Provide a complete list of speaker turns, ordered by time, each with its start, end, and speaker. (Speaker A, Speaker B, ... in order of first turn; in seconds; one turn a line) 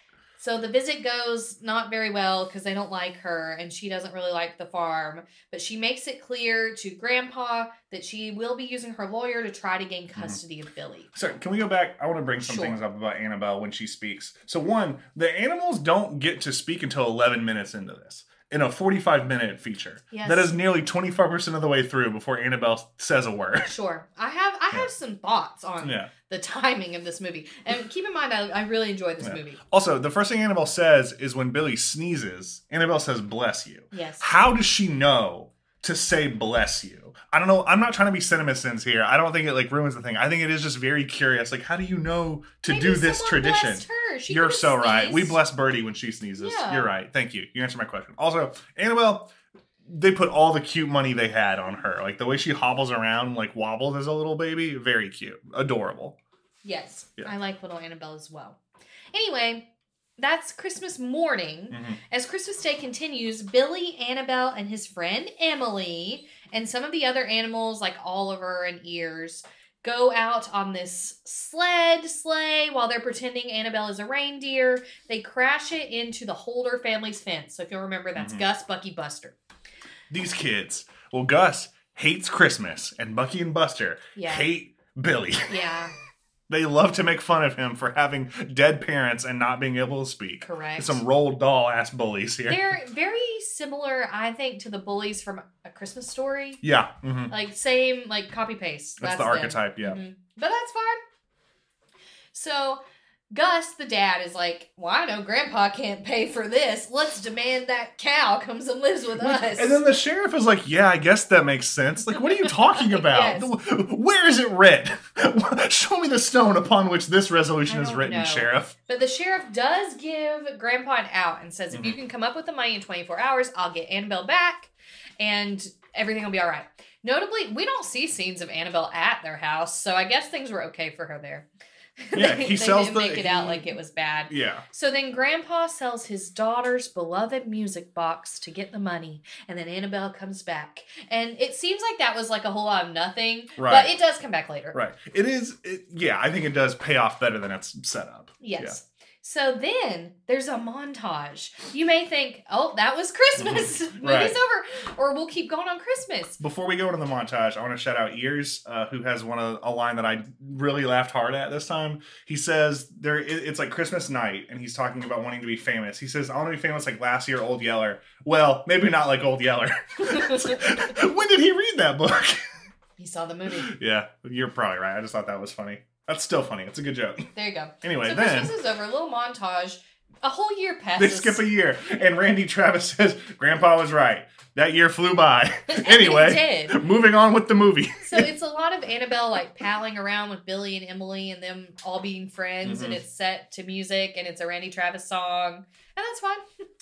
Speaker A: 0.4-11.1
Speaker B: 11.1-23.7
Speaker A: 12.4-12.8
Speaker A: 20.1-20.6
Speaker A: 23.6-29.6
Speaker B: 25.8-26.1
Speaker B: 29.2-49.3
Speaker A: 33.9-34.3
Speaker A: 42.6-45.4
Speaker A: 46.4-46.9
Speaker B: 49.8-56.2
Speaker A: 56.6-58.6
Speaker A: 59.1-79.3
Speaker B: 61.7-62.0
Speaker B: 78.2-78.5
Speaker B: 80.1-85.6
Speaker A: 84.1-84.5
Speaker A: 85.5-85.9
Speaker B: 86.5-92.7
Speaker A: 90.4-91.0
Speaker A: 92.5-96.6
Speaker B: 96.6-97.3
Speaker A: 97.3-101.0
Speaker B: 99.0-100.0
Speaker A: 102.3-109.8
Speaker B: 109.2-118.7
Speaker A: 112.2-113.5
Speaker A: 117.7-131.5
Speaker A: 132.0-144.8
Speaker B: 132.1-133.7
Speaker B: 134.3-134.6
Speaker B: 143.6-143.9
Speaker B: 144.7-148.8
Speaker A: 148.4-156.4
Speaker B: 153.4-154.4
Speaker B: 156.4-172.4
Speaker A: 170.0-170.6
Speaker A: 173.0-173.7
Speaker B: 173.6-177.3
Speaker A: 177.3-181.4
Speaker B: 177.8-178.5
Speaker B: 181.0-188.3
Speaker A: 185.7-186.8
Speaker A: 188.0-196.4
Speaker B: 192.6-193.0